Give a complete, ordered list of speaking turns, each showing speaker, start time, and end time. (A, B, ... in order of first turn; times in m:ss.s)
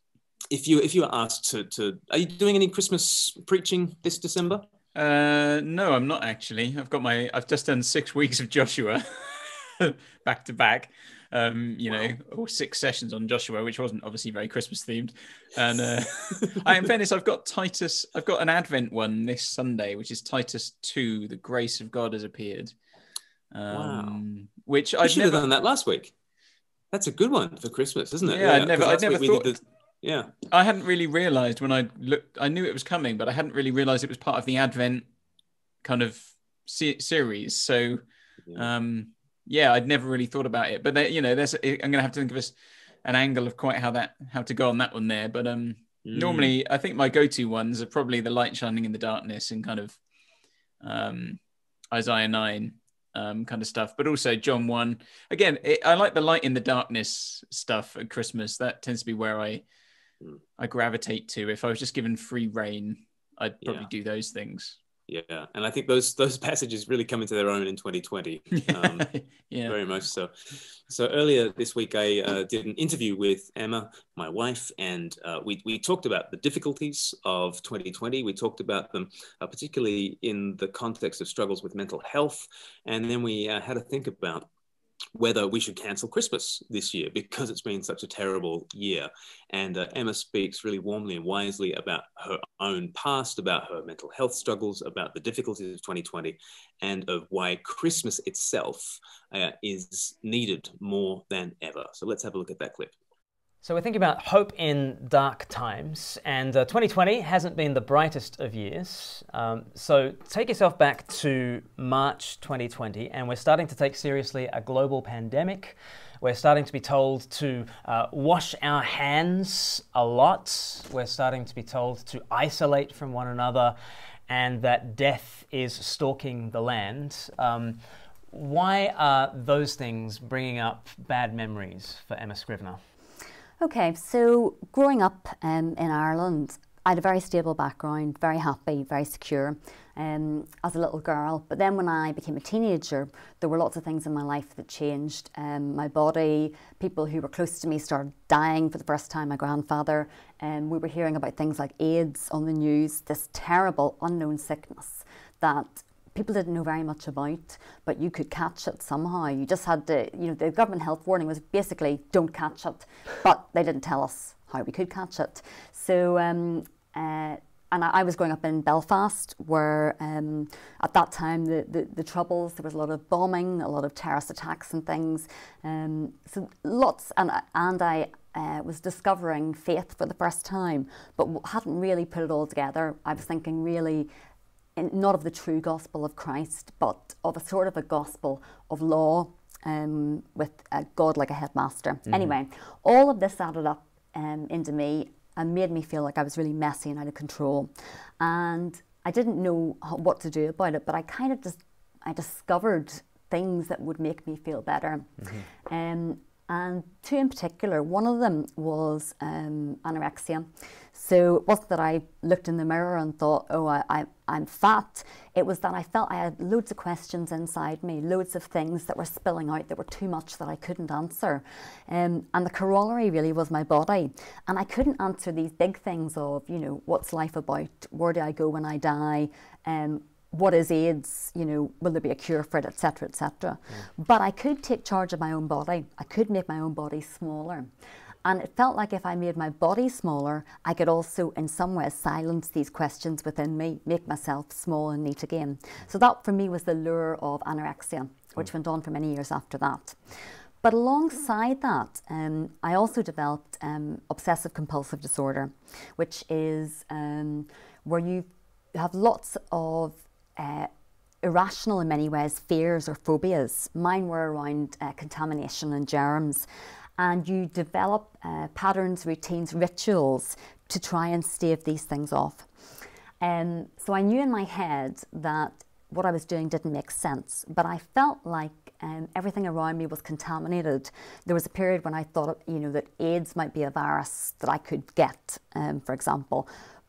0:00.5-0:04.7 A
0:05.0-0:22.7 B
0:23.5-0:25.4 B
0:23.7-0:24.2 A
0:25.0-0:26.1 A
0:26.9-0:30.3 A
0:28.3-0:29.6 B
0:30.5-0:35.1 B
0:35.8-0:38.0 B
0:38.5-0:38.7 A
0:38.6-0:42.5 B
0:43.0-0:50.0 B
0:46.0-0:46.6 A
0:50.8-0:51.4 B
0:51.9-0:59.6 B
1:00.6-1:04.8 B
1:03.6-1:03.9 A
1:05.1-1:09.1 A
1:08.6-1:09.8 B
1:09.7-1:24.5 A
1:25.2-1:42.9 A
1:43.6-2:03.8 C
2:04.3-2:12.8 C
2:13.6-3:04.1 D
3:04.8-3:57.7 D
3:12.1-3:12.4 C
3:25.2-3:25.5 C
3:58.2-4:20.7 D
4:21.2-4:26.5 D
4:27.0-4:32.5 D
4:33.2-4:46.5 D